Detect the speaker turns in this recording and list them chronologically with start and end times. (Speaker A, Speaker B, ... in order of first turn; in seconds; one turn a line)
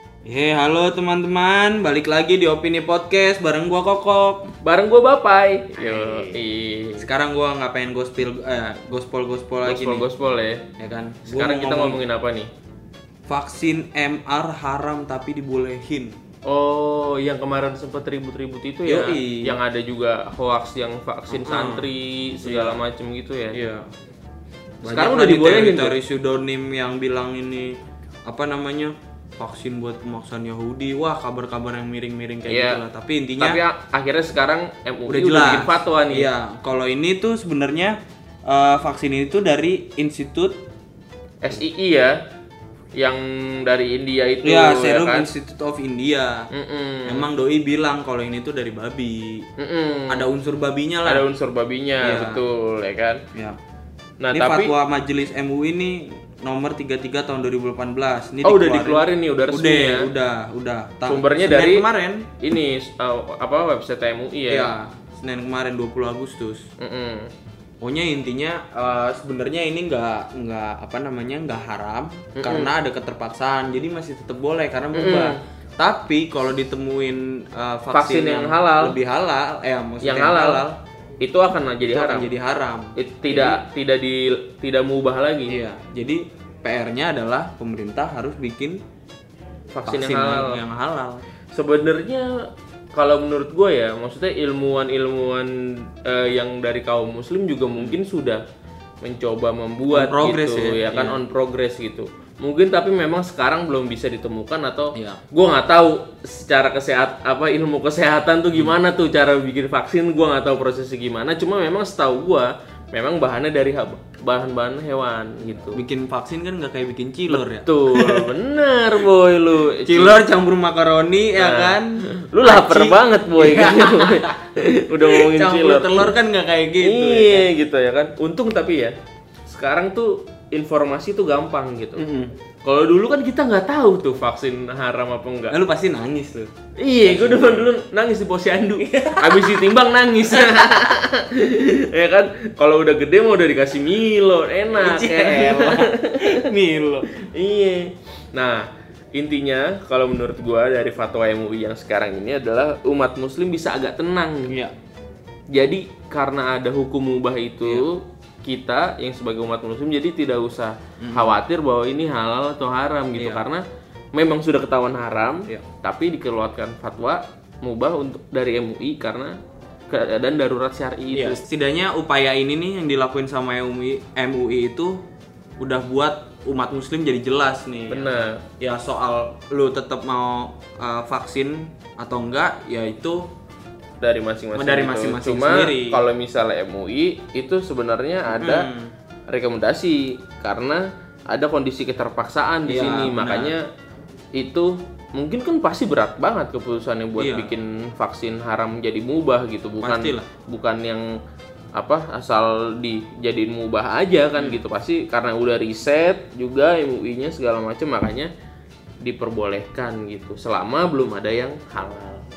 Speaker A: 0.2-4.5
Speaker B: 4.6-7.1
Speaker A: 7.0-10.1
Speaker B: 9.7-10.7
Speaker A: 10.8-12.0
Speaker B: 11.3-12.5
Speaker A: 13.3-16.2
Speaker B: 16.4-23.6
Speaker A: 18.9-19.6
Speaker A: 21.3-21.9
Speaker A: 22.4-22.8
Speaker A: 23.5-23.9
Speaker A: 24.8-33.6
Speaker B: 24.9-26.0
Speaker B: 32.5-32.8
Speaker B: 33.4-36.3
Speaker A: 35.1-40.6
Speaker B: 41.4-42.2
Speaker B: 43.0-45.3
Speaker A: 44.4-46.5
Speaker B: 46.5-47.3
Speaker A: 47.1-49.5
Speaker B: 49.6-50.3
Speaker A: 50.1-51.3
Speaker B: 51.0-53.2
Speaker A: 52.0-52.4
Speaker B: 54.2-54.7
Speaker A: 54.3-62.3
Speaker B: 58.4-60.1
Speaker B: 61.1-61.9
Speaker B: 62.4-64.7
Speaker A: 64.5-66.7
Speaker B: 66.8-67.3
Speaker A: 67.8-80.8
Speaker B: 72.4-72.7
Speaker B: 74.9-75.4
Speaker B: 77.9-79.0
Speaker B: 80.0-80.6
Speaker B: 81.2-82.3
Speaker A: 81.9-83.6
Speaker B: 83.0-85.6
Speaker A: 85.5-88.8
Speaker B: 89.7-90.6
Speaker A: 89.8-91.2
Speaker B: 91.5-92.3
Speaker B: 92.9-98.4
Speaker B: 99.0-115.8
Speaker A: 99.9-101.2
Speaker A: 105.0-105.2
Speaker A: 115.7-118.3
Speaker B: 117.3-120.2
Speaker A: 119.8-124.4
Speaker B: 121.3-126.1
Speaker A: 124.9-127.5
Speaker B: 126.8-128.9
Speaker B: 129.5-132.1
Speaker A: 132.0-132.3
Speaker B: 132.6-135.6
Speaker A: 135.5-136.5
Speaker B: 136.8-146.4
Speaker A: 137.0-137.7
Speaker A: 138.8-139.6
Speaker A: 144.7-147.1
Speaker B: 147.1-154.6
Speaker A: 154.5-154.7
Speaker B: 155.5-169.4
Speaker A: 161.0-161.4
Speaker A: 163.2-163.5
Speaker B: 169.9-171.4
Speaker A: 171.1-175.0
Speaker A: 175.6-183.3
Speaker B: 177.9-178.4
Speaker B: 184.0-188.7
Speaker A: 184.6-186.0
Speaker A: 188.3-188.9
Speaker B: 189.3-193.6
Speaker A: 192.7-193.6
Speaker B: 194.4-201.0
Speaker A: 197.2-197.6
Speaker A: 199.8-200.3
Speaker B: 201.8-208.3
Speaker B: 209.0-212.2